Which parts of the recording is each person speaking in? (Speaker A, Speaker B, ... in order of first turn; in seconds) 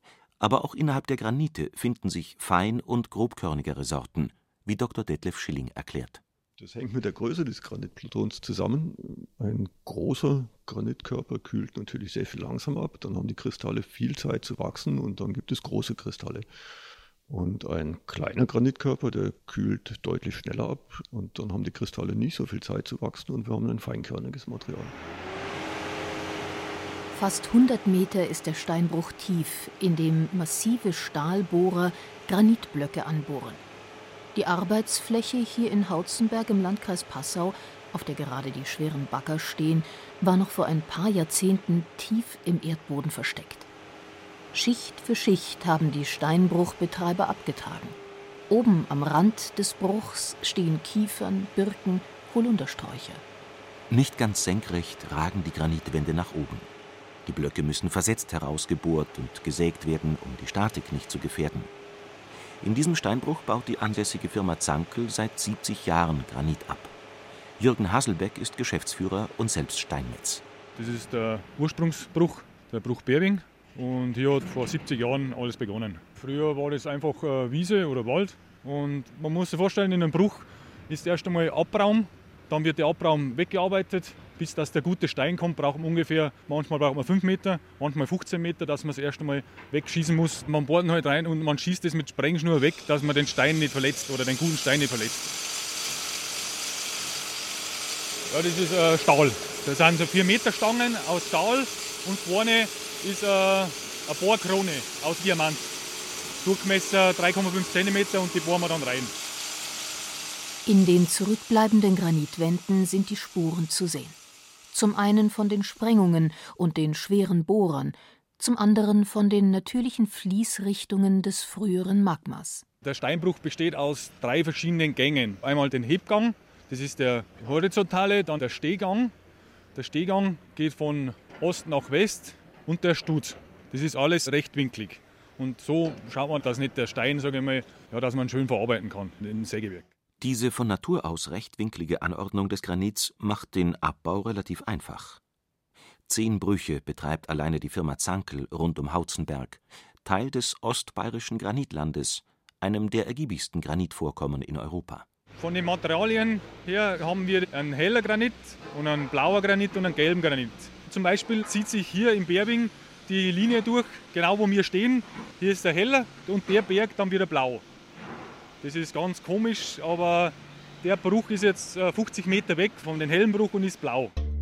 Speaker A: 0.4-6.2, 53.9-56.7, 57.2-61.7, 62.6-66.9, 67.6-70.4, 140.2-145.2, 146.1-155.0
Speaker B: 6.6-16.4, 17.3-24.9
Speaker C: 27.1-33.6, 34.3-43.7, 44.5-48.0, 48.5-53.2, 110.7-114.2, 114.7-122.6
Speaker D: 70.8-95.3, 98.3-105.7, 106.4-109.1, 122.8-129.1, 129.7-139.9, 155.4-167.6, 168.6-174.1